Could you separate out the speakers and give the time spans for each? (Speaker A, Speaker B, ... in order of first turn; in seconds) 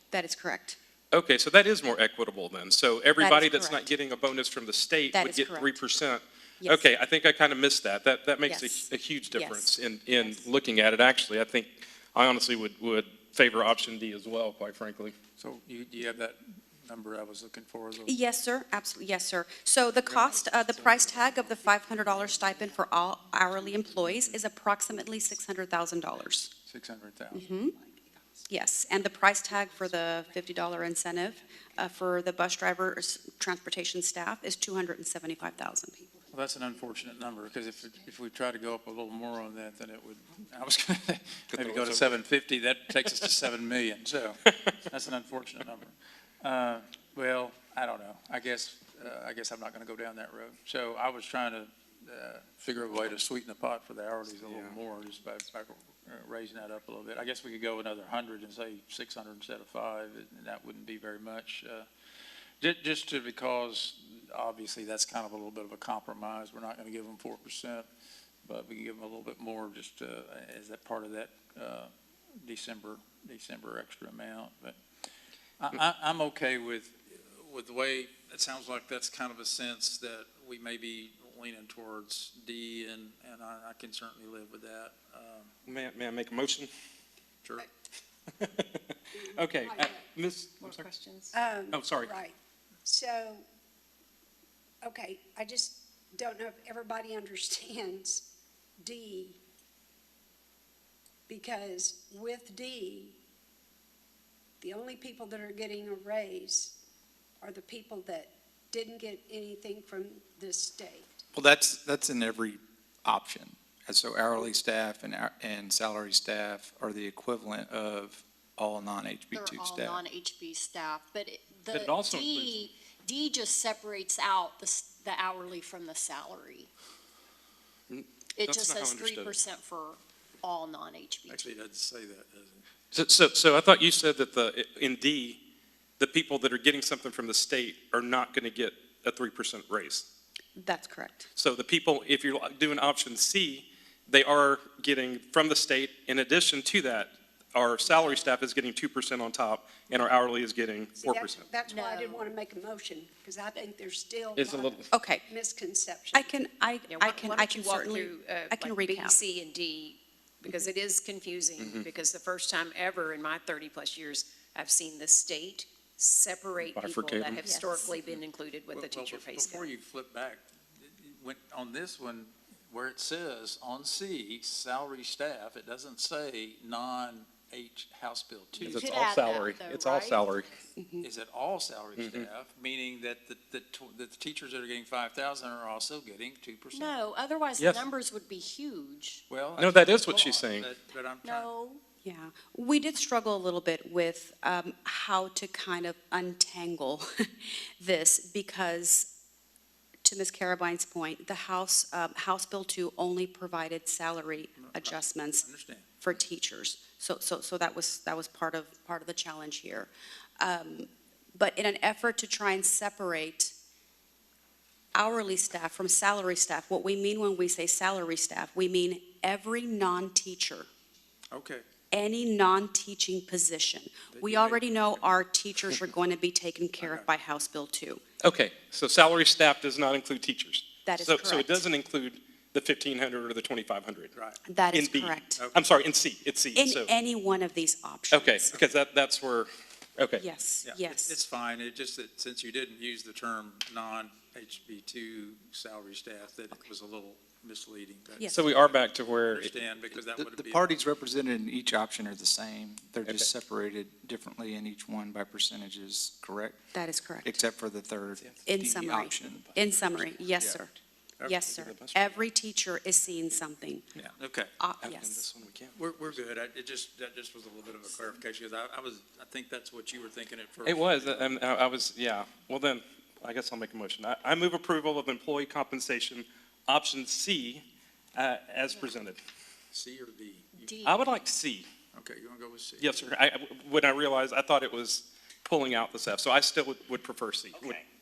Speaker A: 0.1-0.8, 3.1-3.9, 5.1-5.8, 6.6-6.9, 8.5-10.4, 18.1-26.5, 28.5-36.1, 140.6-141.3, 154.9-155.3, 156.1-159.2, 167.4-168.0, 192.0-197.2, 197.8-199.1, 200.0-205.4, 206.0-213.5, 214.9-220.7, 221.9-228.0, 230.8-231.7, 234.5-235.4, 236.5-238.6, 240.2-241.2, 256.7-257.4, 258.4-263.9, 264.6-265.2
Speaker B: 1.1-15.2, 54.4-54.8, 85.7-86.7, 88.4-90.9, 91.7-92.1, 121.7-122.7, 127.9-129.3, 132.9-135.4, 136.0-140.1, 141.3-151.4, 154.3-154.9, 161.6-161.9, 166.7-167.4, 178.6-180.5, 182.0-182.3, 189.6-190.7, 228.2-234.1, 234.7-236.9, 238.1-240.2, 248.3-249.5, 261.2-262.3, 264.8-266.1, 270.6-277.6, 278.1-279.2, 280.8-281.7, 282.8-287.8
Speaker C: 15.4-18.1, 26.6-27.5, 36.3-61.9, 62.6-67.9, 68.4-74.8, 75.6-85.5, 131.3-132.6, 168.7-178.9, 181.0-187.0, 189.3-191.5, 204.6-205.9, 221.3-221.7, 224.1-225.1, 226.8-227.1, 234.1-234.4, 235.3-235.7, 240.6-250.8, 264.0-264.5, 265.7-271.4, 279.7-280.9, 281.9-283.1
Speaker D: 27.4-27.7, 156.9-169.7
Speaker E: 41.5-42.0, 111.3-120.0, 249.9-256.6, 257.2-259.6
Speaker F: 89.4-90.0, 91.3-93.4, 94.8-98.2, 98.8-99.4, 101.3-103.2, 104.6-106.8, 107.4-111.2, 147.8-148.3, 151.0-156.3
Speaker G: 90.6-91.3, 119.3-126.7, 128.3-131.4, 151.7-152.2, 178.6-180.4, 186.7-189.2, 191.2-191.8, 280.6-281.0